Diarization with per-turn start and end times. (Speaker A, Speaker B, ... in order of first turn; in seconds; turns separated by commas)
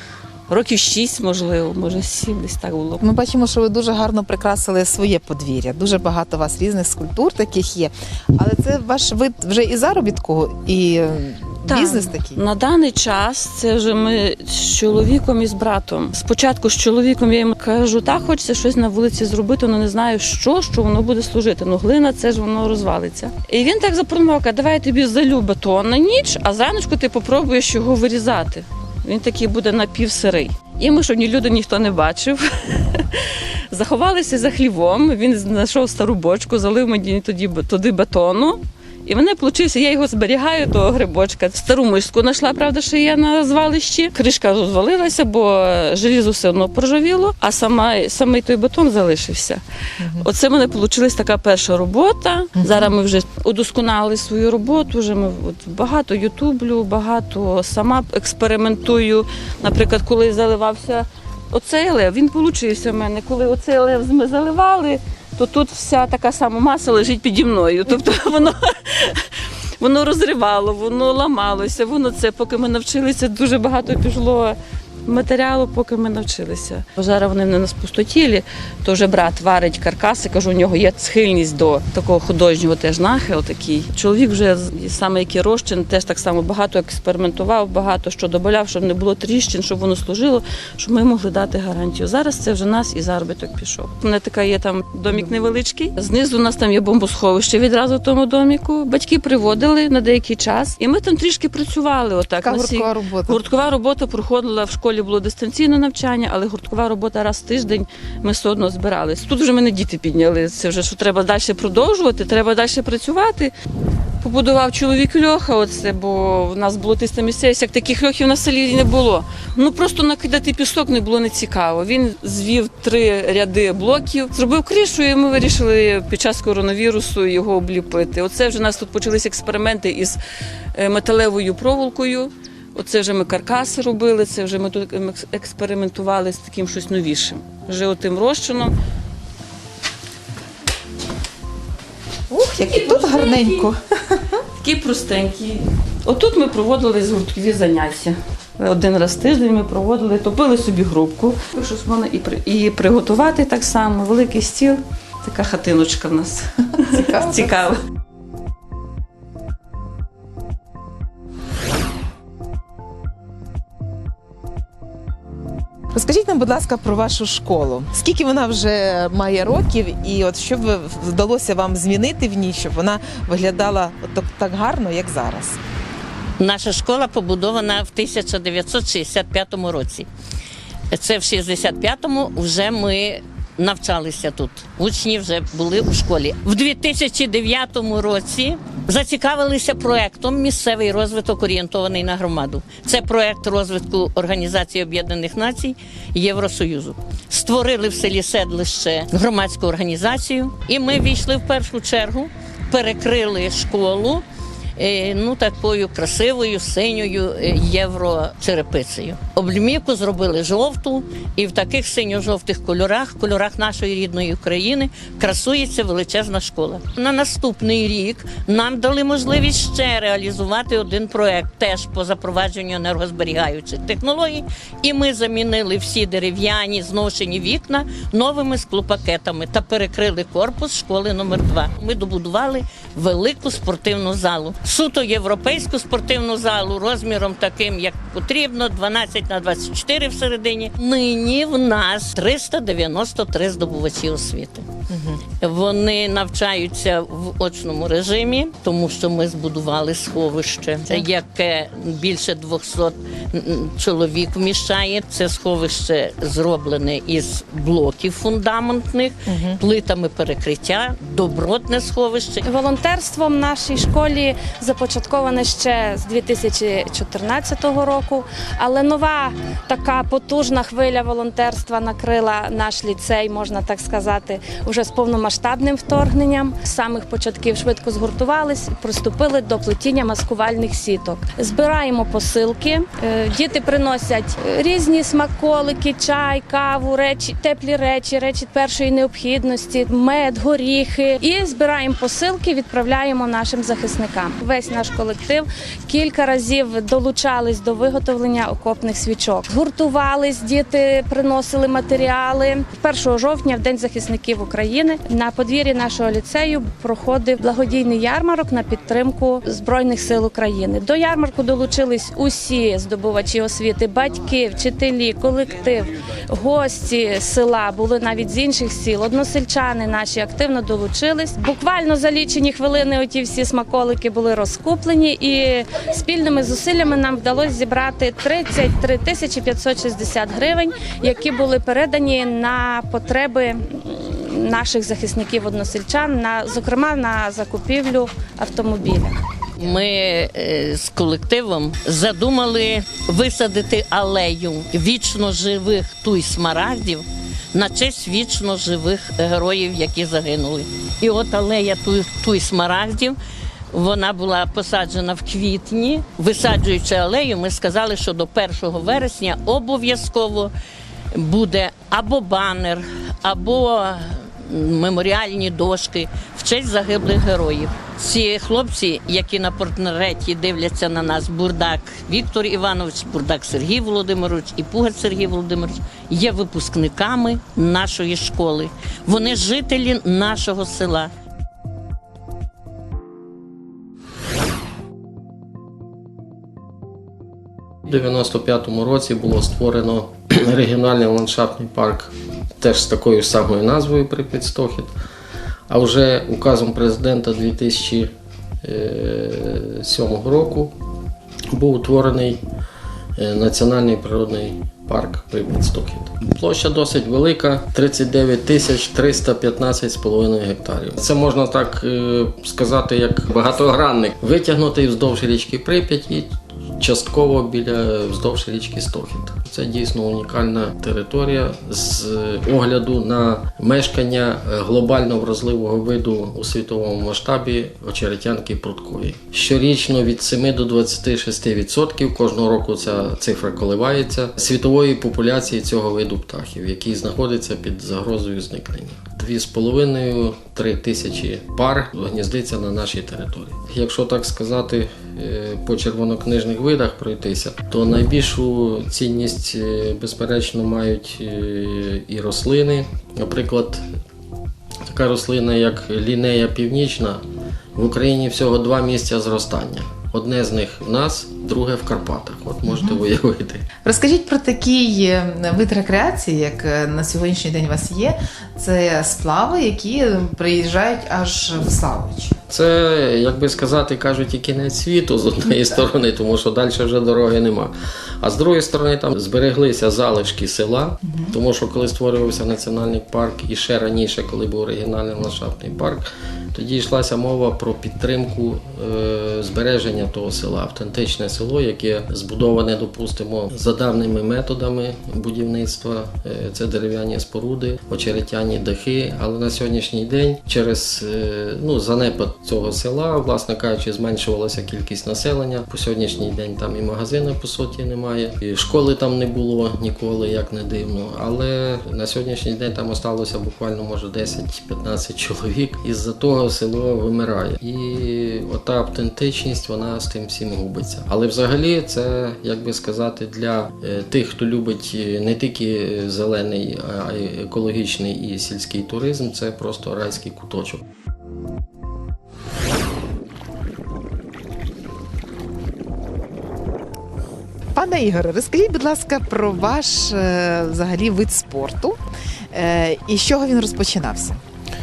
Speaker A: 0.5-3.0, Speaker B: 3.0-12.4, Speaker A: 11.7-49.6, Speaker B: 50.0-50.3, Speaker A: 50.2-69.3, Speaker B: 52.6-52.9, Speaker A: 69.8-113.5, Speaker B: 102.4-103.4, Speaker A: 114.2-130.2, Speaker A: 130.7-138.7, Speaker B: 142.3-144.2, Speaker A: 142.7-143.7, Speaker A: 144.6-157.8, Speaker B: 156.9-157.5, Speaker B: 165.9-175.6, Speaker C: 176.4-180.1, Speaker C: 180.9-204.2, Speaker C: 204.8-244.7, Speaker B: 244.9-245.2, Speaker C: 245.4-262.4, Speaker B: 259.3-259.6, Speaker D: 262.4-339.2, Speaker C: 339.6-353.2, Speaker C: 353.7-360.5, Speaker C: 361.1-381.1, Speaker E: 387.8-394.9, Speaker E: 395.7-398.1, Speaker E: 398.6-400.7, Speaker E: 401.5-402.4, Speaker E: 403.2-453.9, Speaker E: 454.9-457.2, Speaker E: 457.7-463.6, Speaker B: 462.7-463.0, Speaker B: 463.8-472.3, Speaker E: 472.5-530.8, Speaker B: 537.7-542.0, Speaker B: 542.5-544.4